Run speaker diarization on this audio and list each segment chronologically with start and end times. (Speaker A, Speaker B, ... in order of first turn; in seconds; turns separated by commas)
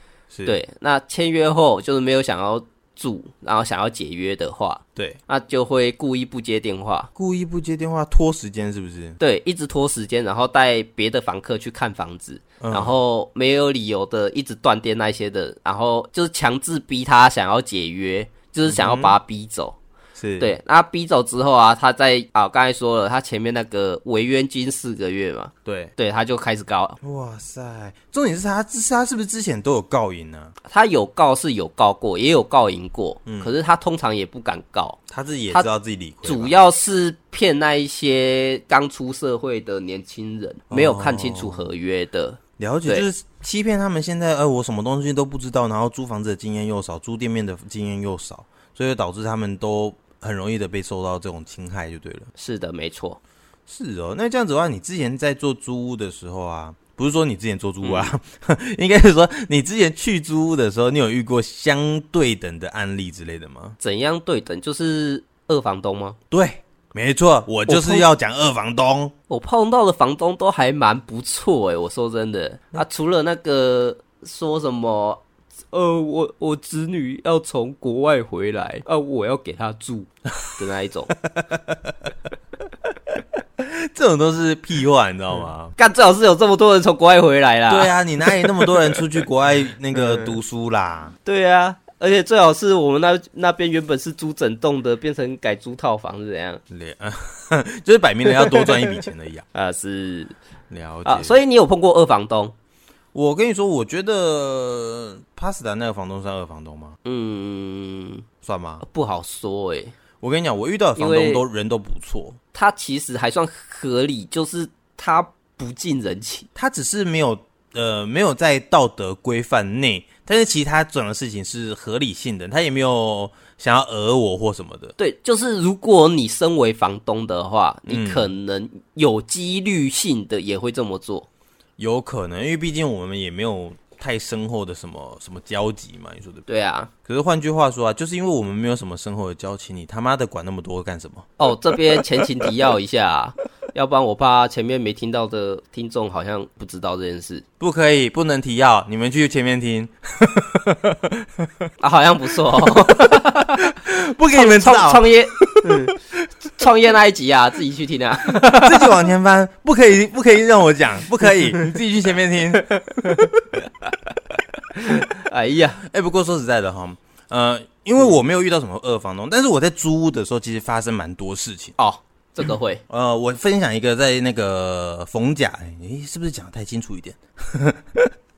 Speaker A: 0.3-0.6, Speaker B: 0.4-7.1, Speaker A: 7.2-9.2, Speaker B: 9.2-19.8, Speaker A: 12.6-12.9, Speaker A: 18.7-19.2, Speaker A: 20.1-20.6, Speaker B: 20.4-27.0, Speaker A: 25.6-25.9, Speaker A: 27.0-30.5, Speaker B: 30.6-35.0, Speaker A: 33.2-33.5, Speaker A: 35.1-36.5, Speaker B: 36.2-43.1, Speaker A: 40.7-41.7, Speaker A: 42.6-52.3, Speaker B: 52.4-53.2, Speaker A: 53.7-63.8, Speaker B: 57.8-58.1, Speaker B: 63.8-66.2, Speaker A: 66.3-69.1, Speaker B: 67.7-68.0, Speaker B: 69.3-81.2, Speaker A: 81.2-82.1, Speaker A: 83.6-85.7, Speaker B: 85.8-87.9, Speaker A: 87.7-91.1, Speaker B: 88.6-89.0, Speaker B: 90.0-90.3, Speaker B: 91.2-96.6, Speaker A: 96.7-99.5, Speaker B: 98.4-98.7, Speaker B: 99.5-100.3, Speaker A: 100.7-101.3, Speaker B: 101.0-102.5, Speaker A: 103.1-107.0, Speaker B: 107.0-108.2, Speaker A: 108.4-108.8, Speaker B: 108.8-109.9, Speaker A: 110.2-112.4, Speaker B: 111.0-111.4, Speaker B: 112.5-116.5, Speaker A: 116.5-124.9, Speaker B: 125.0-131.3, Speaker A: 127.9-128.3, Speaker A: 131.8-136.4, Speaker B: 136.5-136.9, Speaker A: 137.1-142.5, Speaker B: 141.4-147.4, Speaker A: 147.6-151.5, Speaker B: 151.8-153.7, Speaker A: 152.5-156.2, Speaker B: 154.3-155.9, Speaker B: 156.5-158.9, Speaker A: 158.4-163.3, Speaker B: 162.6-163.9, Speaker B: 164.7-165.8, Speaker A: 165.8-171.7, Speaker B: 171.8-172.8, Speaker A: 172.9-178.1